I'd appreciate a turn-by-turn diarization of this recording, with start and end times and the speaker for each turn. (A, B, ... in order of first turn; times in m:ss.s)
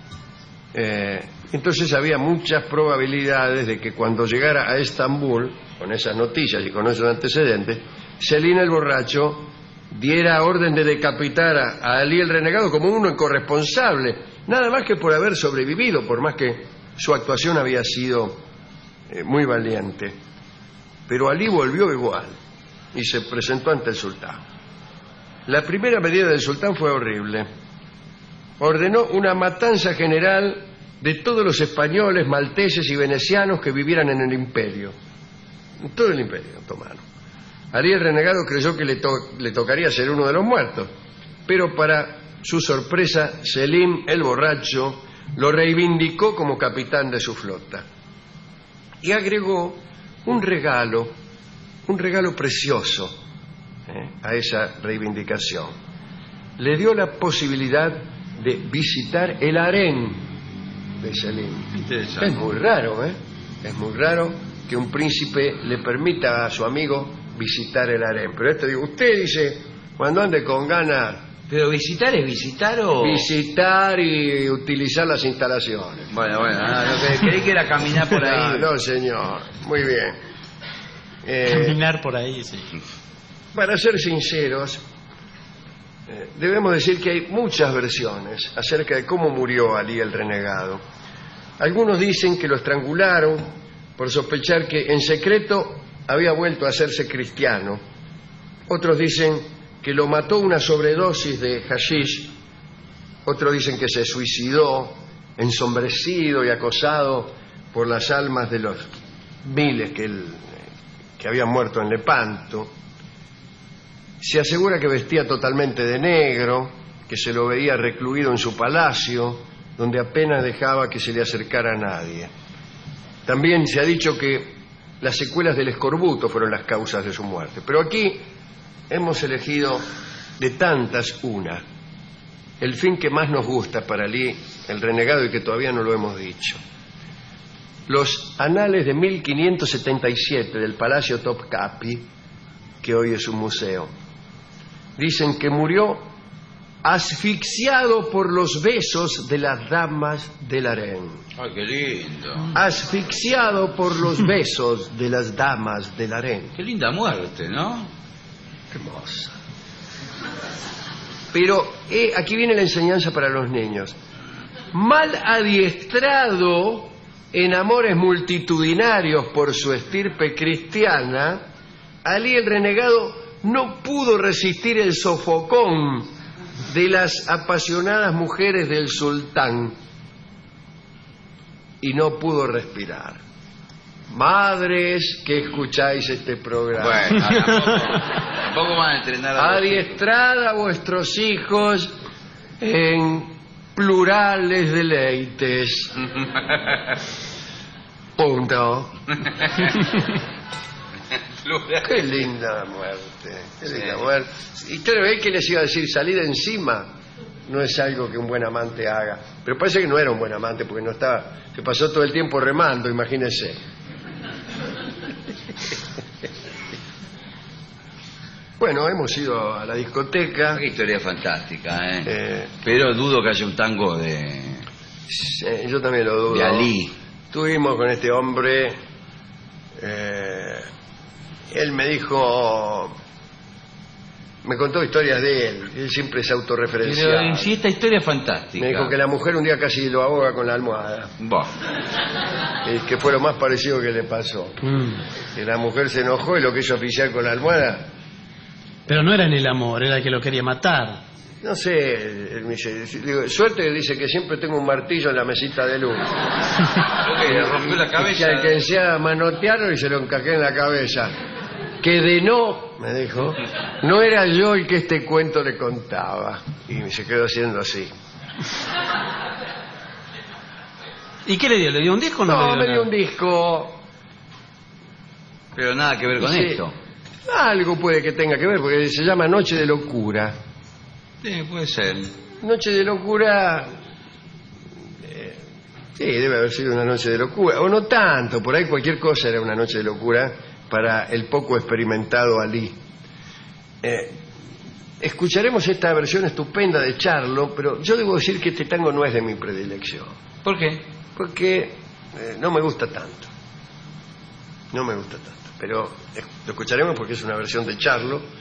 0:00.7-0:18.4 A
0:19.1-0:20.1 A
0:21.1-0:22.4 A
0:22.9-0:24.4 A
0:25.5-0:27.5 A
0:28.6-0:34.9 A
0:35.9-0:37.0 A
0:37.7-0:40.9 A
0:41.5-0:47.8 A
0:49.0-0:51.1 A
0:51.9-0:53.1 A
0:53.9-0:55.7 A
0:56.6-1:00.2 A
1:01.0-1:11.2 A
1:01.7-1:02.3 B
1:11.5-1:13.3 B
1:13.0-1:16.1 A
1:16.1-1:18.7 B
1:18.2-1:20.2 A
1:21.2-1:21.8 A
1:21.5-1:22.7 C
1:23.5-1:24.8 A
1:26.1-1:30.8 A
1:31.6-1:37.8 A
1:38.7-1:42.3 A
1:43.3-1:48.9 A
1:49.4-1:50.7 A
1:51.2-1:52.7 A
1:54.2-2:02.3 A
2:03.3-2:08.2 A
2:08.9-2:09.8 A
2:10.4-2:11.6 A
2:12.6-2:16.6 A
2:17.9-2:22.1 A
2:22.8-2:23.9 A
2:25.0-2:26.1 A
2:26.8-2:31.2 A
2:31.4-2:32.5 B
2:32.5-2:36.6 A
2:36.6-2:37.9 B
2:38.7-2:39.4 A
2:41.3-2:44.0 A
2:44.7-2:51.4 A
2:52.0-2:56.1 A
2:56.7-2:59.7 A
3:01.8-3:03.2 A
3:04.1-3:07.2 A
3:06.8-3:10.0 B
3:09.4-3:11.9 A
3:12.6-3:16.0 A
3:18.2-3:19.1 A
3:21.4-3:21.9 B
3:21.8-3:26.9 A
3:23.6-3:24.0 B
3:27.5-3:33.6 A
3:38.6-3:40.6 A
3:40.5-3:44.6 B
3:42.1-3:42.5 A
3:45.1-3:46.7 A
3:46.3-3:46.9 B
3:47.3-3:48.8 A
3:49.8-3:50.7 A
3:51.5-3:53.0 A
3:54.4-3:57.5 A
3:56.8-3:58.9 B
3:58.6-4:01.1 A
4:01.2-4:01.5 B
4:02.6-4:07.9 A
4:08.9-4:11.0 C
4:11.4-4:16.2 A
4:17.0-4:18.6 B
4:17.3-4:21.1 A
4:21.8-4:27.9 A
4:31.3-4:32.9 C
4:32.3-4:33.8 A
4:35.6-4:36.7 B
4:36.2-4:36.6 A
4:37.3-4:40.3 A
4:41.2-4:42.1 B
4:42.4-4:43.7 A
4:45.0-4:45.4 A
4:46.0-4:52.8 A
4:53.8-4:54.2 A
4:55.0-5:00.1 A
5:00.4-5:00.8 B
5:01.2-5:03.3 A
5:04.7-5:08.2 A